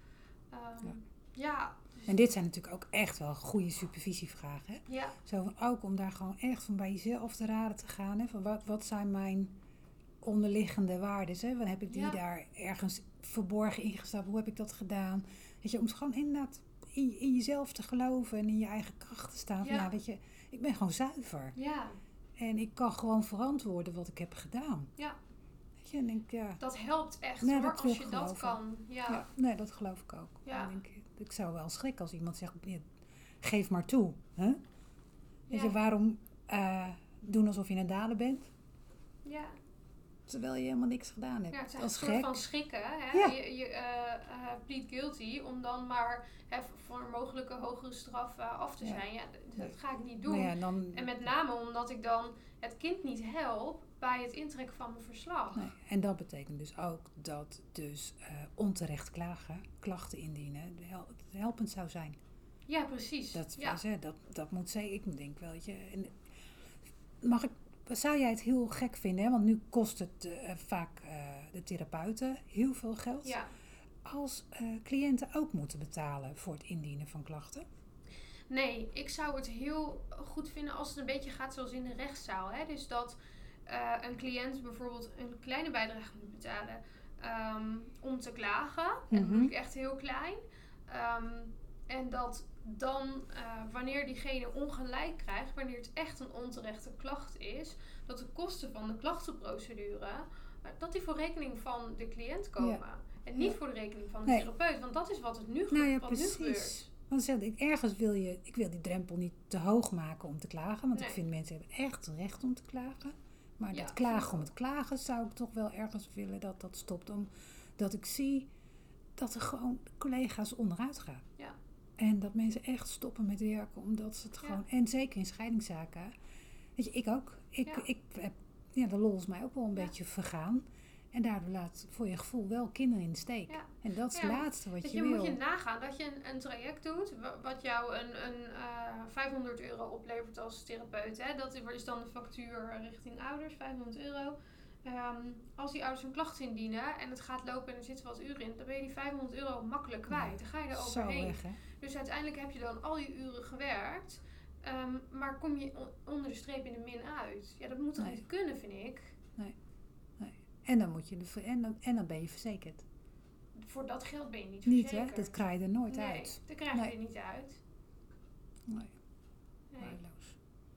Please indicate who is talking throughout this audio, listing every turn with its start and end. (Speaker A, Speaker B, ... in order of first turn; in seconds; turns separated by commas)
Speaker A: 0.5-2.3, Speaker B: 2.1-9.6, Speaker A: 4.9-5.2, Speaker B: 10.2-21.5, Speaker A: 11.9-12.2, Speaker A: 19.6-19.9, Speaker A: 21.6-21.9, Speaker B: 22.4-24.9, Speaker B: 25.8-26.6, Speaker A: 26.6-29.2, Speaker B: 27.4-32.9, Speaker A: 30.4-30.7, Speaker B: 33.4-34.6, Speaker B: 35.5-38.5, Speaker A: 35.5-35.7, Speaker A: 39.2-39.6, Speaker B: 40.3-42.4, Speaker A: 41.5-55.7, Speaker B: 50.2-51.1, Speaker B: 55.5-62.2, Speaker A: 62.7-63.8, Speaker B: 63.3-66.2, Speaker B: 67.2-73.4, Speaker A: 73.2-73.5, Speaker B: 74.0-77.7, Speaker A: 78.5-83.2, Speaker A: 83.7-106.8, Speaker B: 89.1-89.5, Speaker B: 105.7-118.5, Speaker A: 110.9-111.2, Speaker A: 113.7-114.5, Speaker B: 119.2-121.2, Speaker B: 122.0-126.1, Speaker B: 126.8-135.4, Speaker A: 133.5-159.2, Speaker B: 150.1-151.6, Speaker B: 160.2-162.8, Speaker A: 163.6-165.4, Speaker B: 164.7-166.9, Speaker A: 165.9-167.6, Speaker B: 168.7-168.9, Speaker A: 169.7-170.0, Speaker B: 169.8-170.3